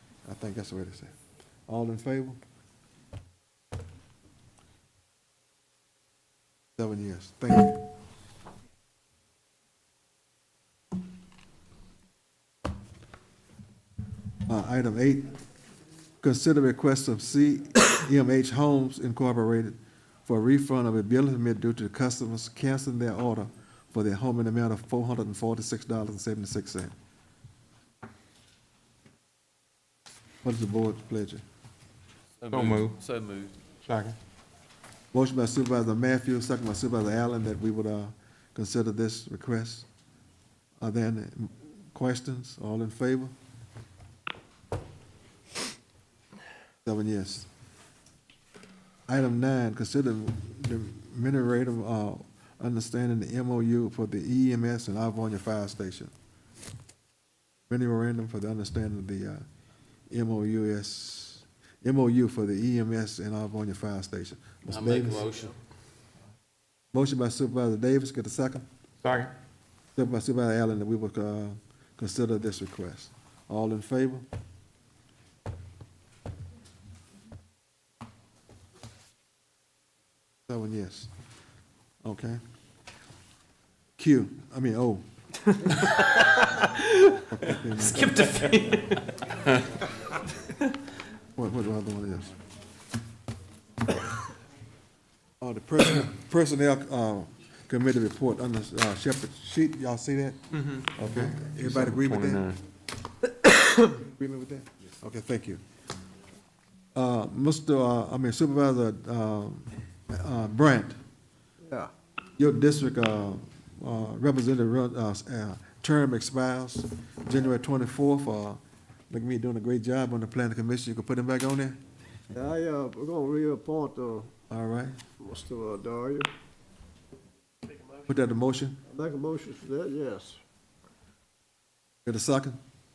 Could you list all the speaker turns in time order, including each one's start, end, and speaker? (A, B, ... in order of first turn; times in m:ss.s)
0:00.2-0:01.1 A
0:01.7-0:02.4 A
0:06.8-0:07.9 A
0:14.4-0:15.4 A
0:16.2-0:26.9 A
0:30.4-0:31.4 A
0:32.4-0:33.6 B
0:32.5-0:33.0 C
0:33.8-0:34.2 C
0:35.1-0:39.9 A
0:40.8-0:43.3 A
0:46.8-0:47.5 A
0:49.1-0:56.1 A
0:57.7-0:59.4 A
1:00.1-1:05.3 A
1:04.7-1:05.5 B
1:06.9-1:08.6 A
1:09.0-1:09.3 C
1:09.9-1:14.2 A
1:20.5-1:21.1 A
1:22.0-1:22.4 A
1:24.0-1:25.0 A
1:25.7-1:27.2 D
1:27.3-1:28.3 A
1:27.8-1:29.2 D
1:31.4-1:32.3 A
1:35.4-1:42.5 A
1:41.0-1:42.6 C
1:43.4-1:43.9 D
1:43.9-1:45.6 A
1:46.9-1:51.0 A
1:51.6-1:51.9 E
1:52.4-2:01.8 A
2:02.3-2:04.3 E
2:04.5-2:04.9 A
2:05.2-2:06.3 E
2:08.1-2:08.8 A
2:08.9-2:10.4 E
2:12.0-2:12.6 A